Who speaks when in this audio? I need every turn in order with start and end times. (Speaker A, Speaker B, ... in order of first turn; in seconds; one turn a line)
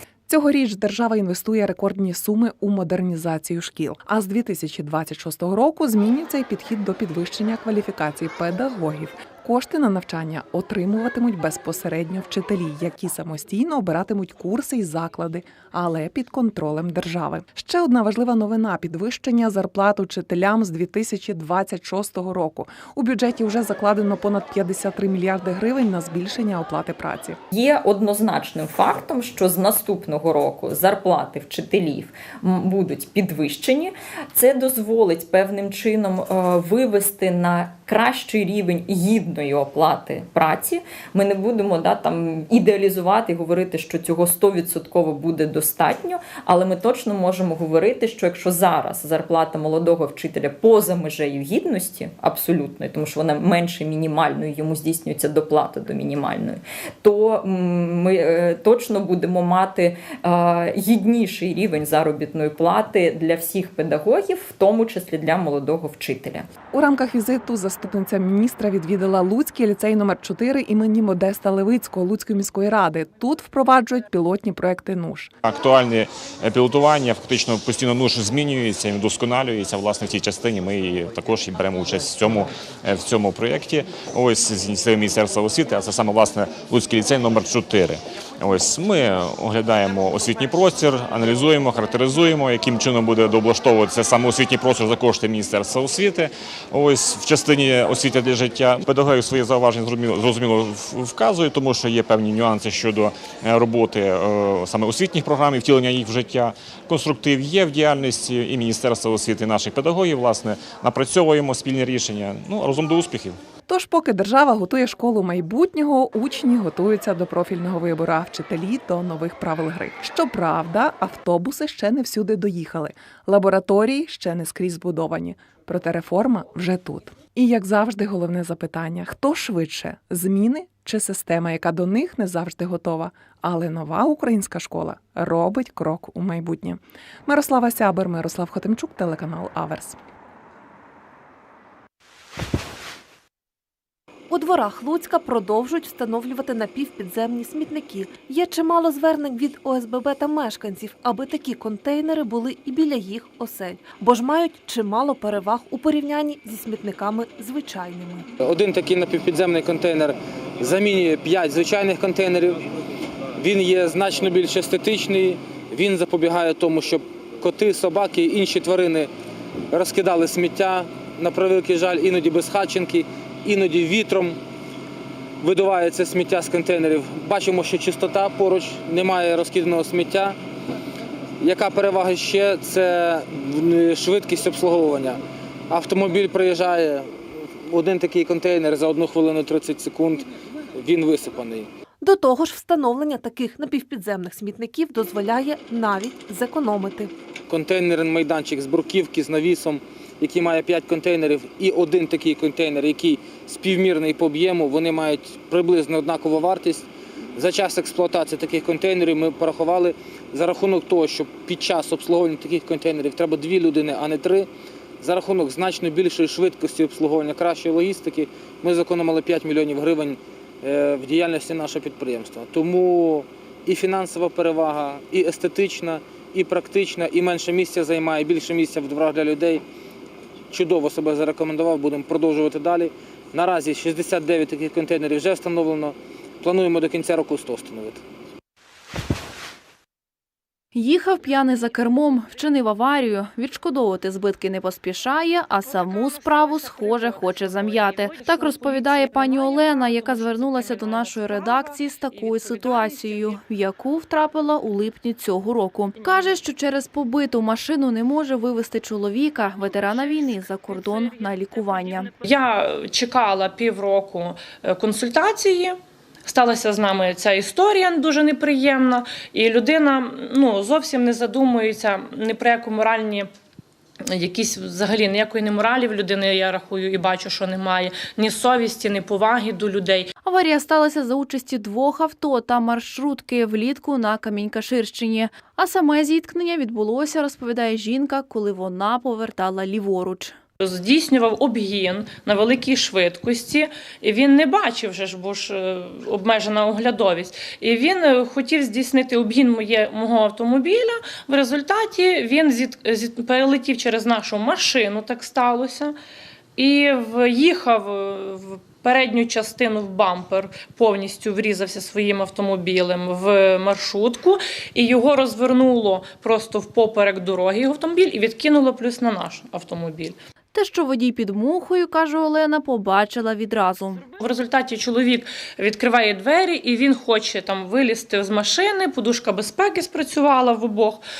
Speaker A: 0.3-27.4
Speaker B: 27.5-66.5
Speaker A: 66.7-75.3
Speaker C: 75.4-113.4
Speaker A: 113.7-140.0
Speaker D: 144.3-158.3
Speaker E: 158.4-162.7
Speaker E: 163.4-169.1
Speaker E: 169.7-174.4
Speaker E: 175.4-180.4
Speaker E: 181.4-187.1
Speaker E: 187.6-191.7
Speaker D: 192.0-197.1
Speaker E: 197.5-214.5
Speaker E: 215.0-229.6
Speaker E: 230.5-238.0
Speaker F: 240.7-262.1
Speaker G: 262.2-273.3
Speaker G: 274.0-280.1
Speaker F: 280.2-290.4
Speaker G: 290.6-305.9
Speaker G: 306.6-320.1
Speaker F: 320.5-324.0
Speaker G: 324.1-331.0